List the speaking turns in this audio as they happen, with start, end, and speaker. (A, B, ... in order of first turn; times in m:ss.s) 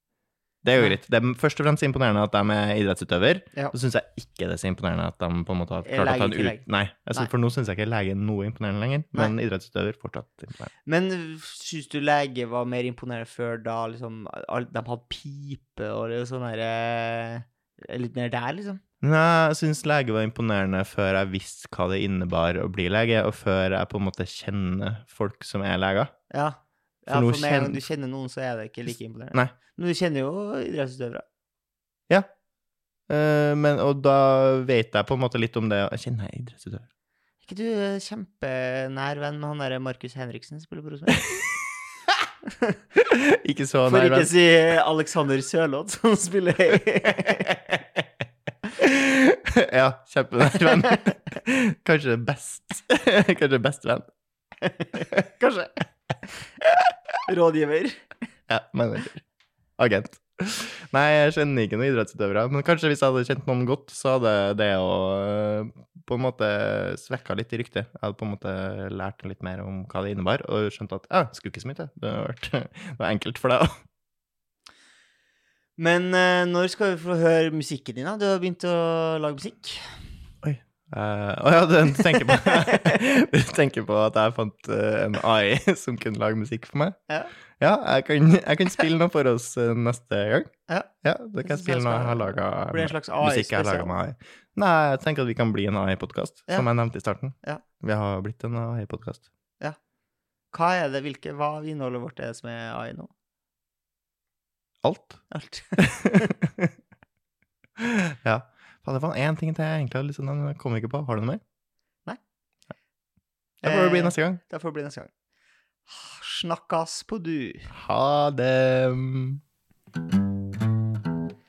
0:00.6-0:10.7 A
0:05.8-0:06.6 B
0:10.8-0:18.8 B
0:19.0-0:26.1 A
0:26.3-0:31.2 B
0:27.1-0:27.8 A
0:33.1-0:36.9 A
0:37.4-0:41.4 B
0:42.9-0:44.3 A
0:43.8-0:47.8 B
0:48.8-0:54.0 A
0:54.6-0:55.7 B
0:57.3-0:58.0 B
0:58.5-0:59.2 A
0:59.8-1:13.8 A
1:15.8-1:20.0 B
1:20.4-1:27.0 A
1:22.4-1:22.7 B
1:27.6-1:30.5 A
1:31.0-1:39.2 A
1:31.4-1:33.9 B
1:40.5-1:43.1 B
1:44.8-1:45.2 A
1:45.3-1:46.3 B
1:45.8-1:46.7 A
1:47.8-1:51.4 A
1:53.6-1:55.1 B
1:53.6-1:54.4 A
1:55.9-1:57.7 B
1:57.7-1:59.4 A